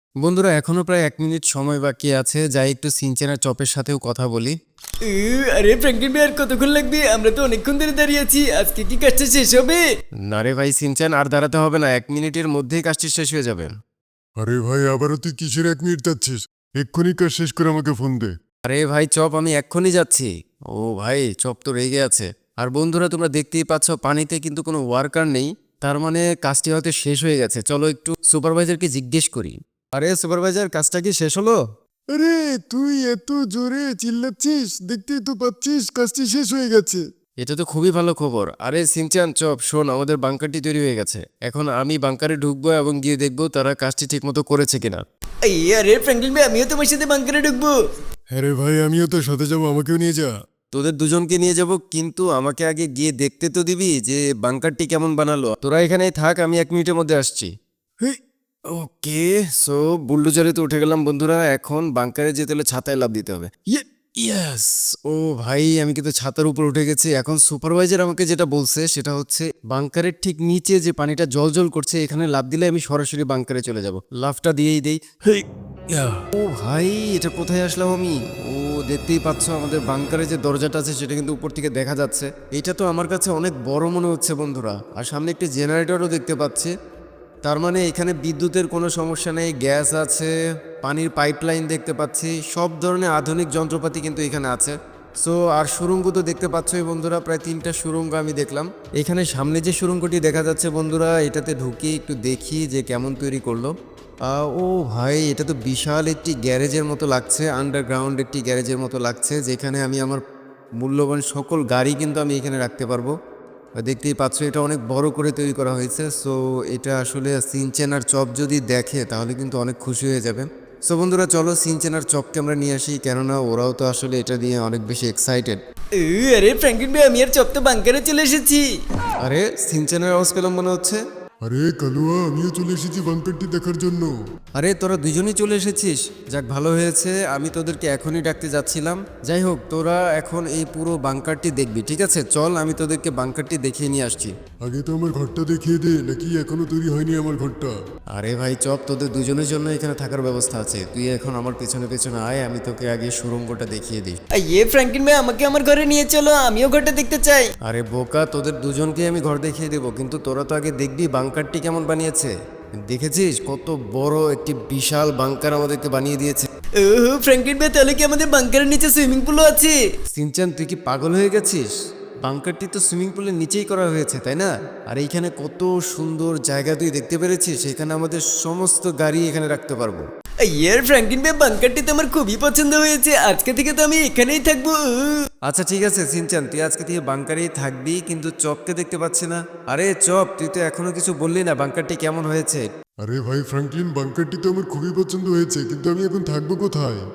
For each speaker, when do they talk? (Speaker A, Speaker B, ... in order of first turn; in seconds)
Speaker A: 0.2-4.5, 10.2-13.7, 18.6-31.6, 37.4-45.0, 50.7-57.5, 58.7-86.7, 87.4-103.7, 104.3-110.2, 110.8-113.1, 113.8-125.6, 129.2-131.0, 134.6-144.3, 148.1-154.2, 157.6-162.3, 162.8-166.5, 170.1-171.7, 172.2-180.1, 185.4-192.7
Speaker B: 5.0-9.8, 45.4-47.7, 126.0-128.6, 154.3-157.5, 166.8-169.8, 180.5-185.2
Speaker C: 14.4-18.3, 32.1-37.0, 48.3-50.3, 131.4-134.1, 144.6-147.7, 193.0-197.0